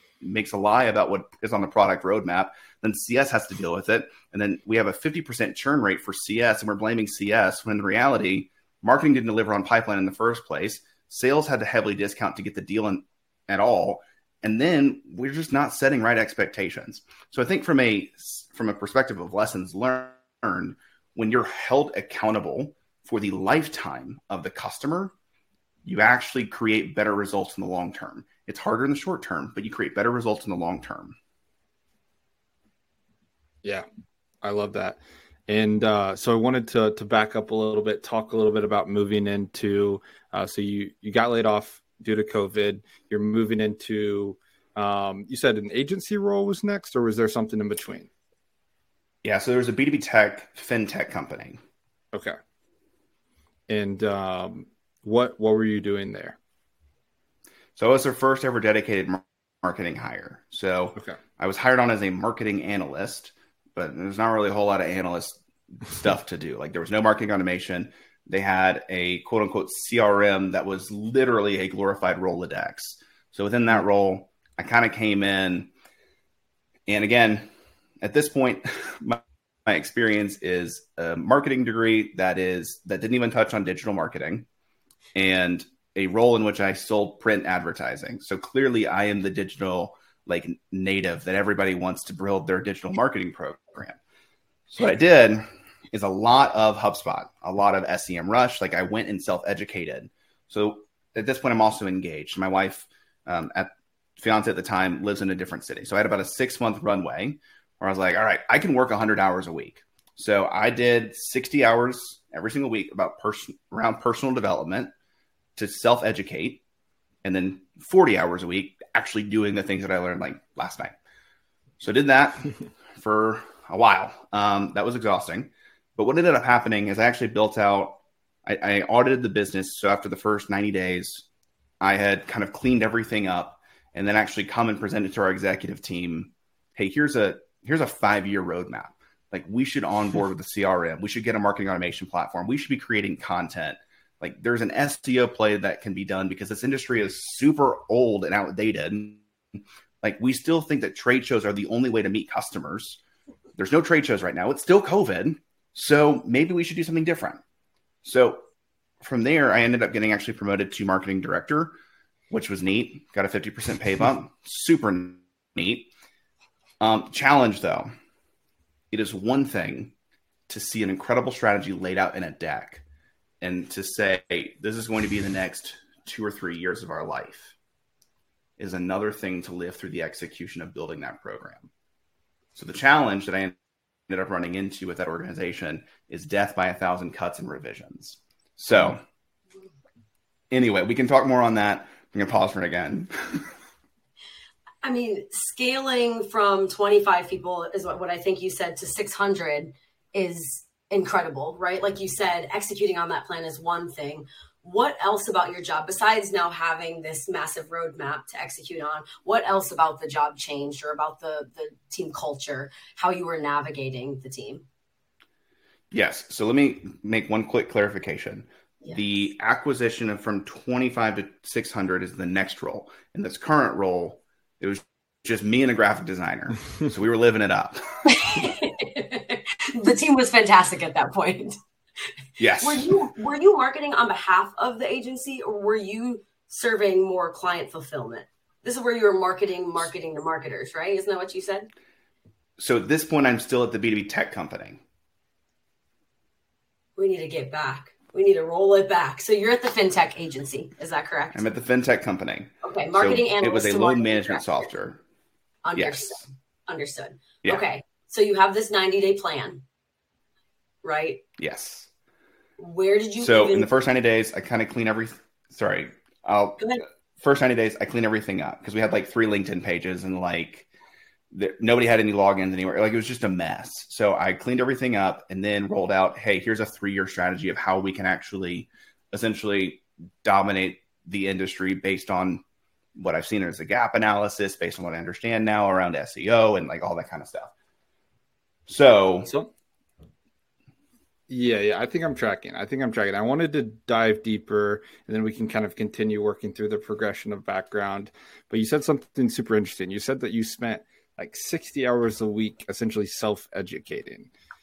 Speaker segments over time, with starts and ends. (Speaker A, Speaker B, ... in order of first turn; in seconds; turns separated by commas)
Speaker A: 0.2-25.1, Speaker A: 25.9-31.2, Speaker B: 34.4-48.1, Speaker A: 49.2-51.6, Speaker B: 53.7-56.4, Speaker A: 57.8-75.7, Speaker A: 76.9-77.5, Speaker A: 78.0-84.5, Speaker A: 85.2-94.0, Speaker A: 94.7-114.9, Speaker A: 115.6-116.6, Speaker A: 117.2-121.0, Speaker A: 121.8-131.2, Speaker A: 131.8-153.0, Speaker A: 153.6-157.4, Speaker A: 158.0-158.4, Speaker A: 159.0-161.7, Speaker A: 162.3-165.9, Speaker A: 166.8-167.9, Speaker A: 168.9-169.9, Speaker A: 170.5-172.8, Speaker A: 173.4-177.6, Speaker A: 178.6-181.7, Speaker A: 182.6-189.0, Speaker A: 190.5-193.5, Speaker C: 194.8-214.7, Speaker A: 215.9-227.8, Speaker C: 228.1-231.6, Speaker A: 232.4-232.9, Speaker C: 232.6-241.7, Speaker A: 242.6-244.8, Speaker C: 247.0-251.4, Speaker A: 251.3-255.0, Speaker C: 252.6-254.7, Speaker C: 255.7-259.6, Speaker A: 255.8-256.2, Speaker C: 260.8-261.2, Speaker A: 261.4-261.9, Speaker C: 262.6-263.7, Speaker A: 263.2-270.7, Speaker A: 271.3-282.4, Speaker A: 282.9-287.5, Speaker A: 288.7-289.3, Speaker B: 289.3-289.5, Speaker B: 291.3-304.3